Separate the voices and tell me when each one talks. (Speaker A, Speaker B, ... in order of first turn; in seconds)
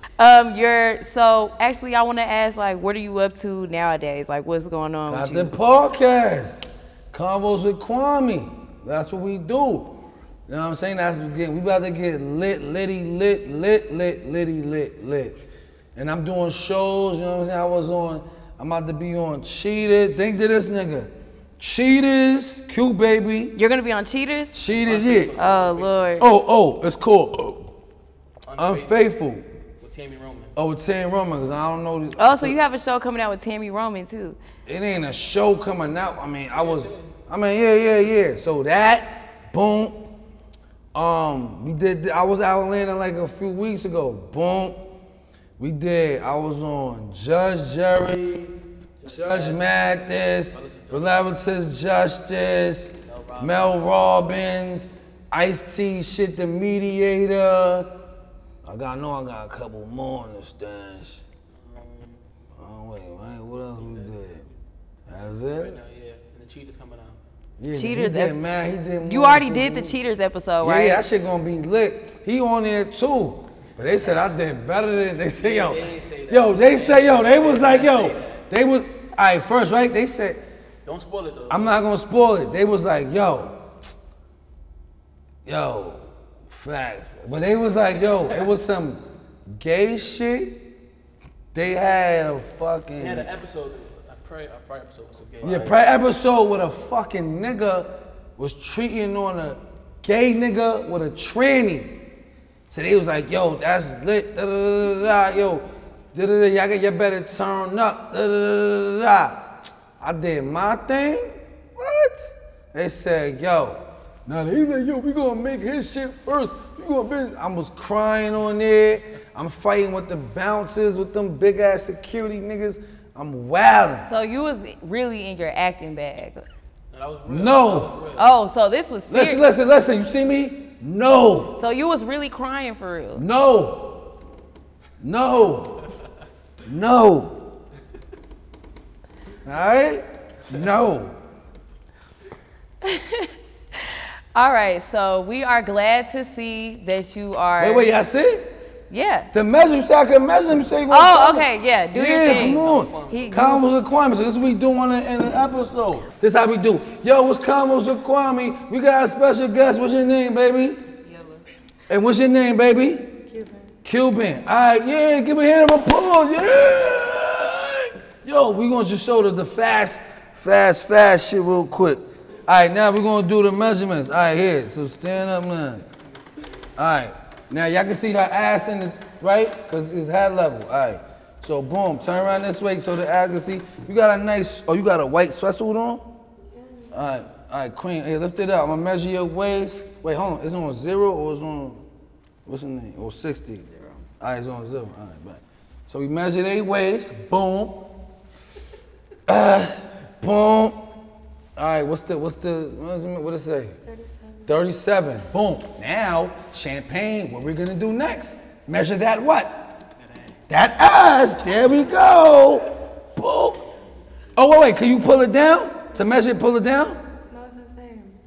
Speaker A: 0.2-5.5, 23.6-24.6, 25.4-26.3, 32.1-34.4, 67.7-68.4, 69.0-71.0, 124.0-126.5, 128.2-129.4, 131.6-133.2, 142.8-147.9, 148.9-149.3, 150.9-153.6
Speaker B: 5.1-9.9, 10.5-15.4, 15.9-23.6, 24.5-25.3, 26.2-27.7, 28.6-29.5, 30.6-32.5, 34.6-40.0, 40.9-44.8, 45.6-57.9, 58.6-61.2, 62.5-64.4, 65.1-65.8, 67.6-70.0, 70.6-80.4, 81.5-83.6, 85.4-90.6, 91.5-93.3, 95.4-102.0, 102.7-124.1, 127.2-127.9, 129.1-131.6, 133.1-134.1, 135.0-135.9, 136.6-137.5, 139.4-141.2, 147.6-148.5, 149.3-160.8, 161.9-163.3, 163.8-175.8, 176.8-186.1, 186.9-191.8, 192.4-193.7, 194.2-197.9, 199.3-200.9, 201.6-203.8, 204.4-209.7, 210.5-213.6, 214.3-217.0
Speaker C: 24.8-26.2, 28.4-29.0, 29.8-30.5, 36.5-37.1, 49.0-49.9, 50.5-51.3, 53.0-53.8, 61.5-62.2, 63.8-64.5, 65.1-67.2, 75.3-78.4, 80.8-81.8, 93.0-95.8, 126.9-128.3, 152.2-153.5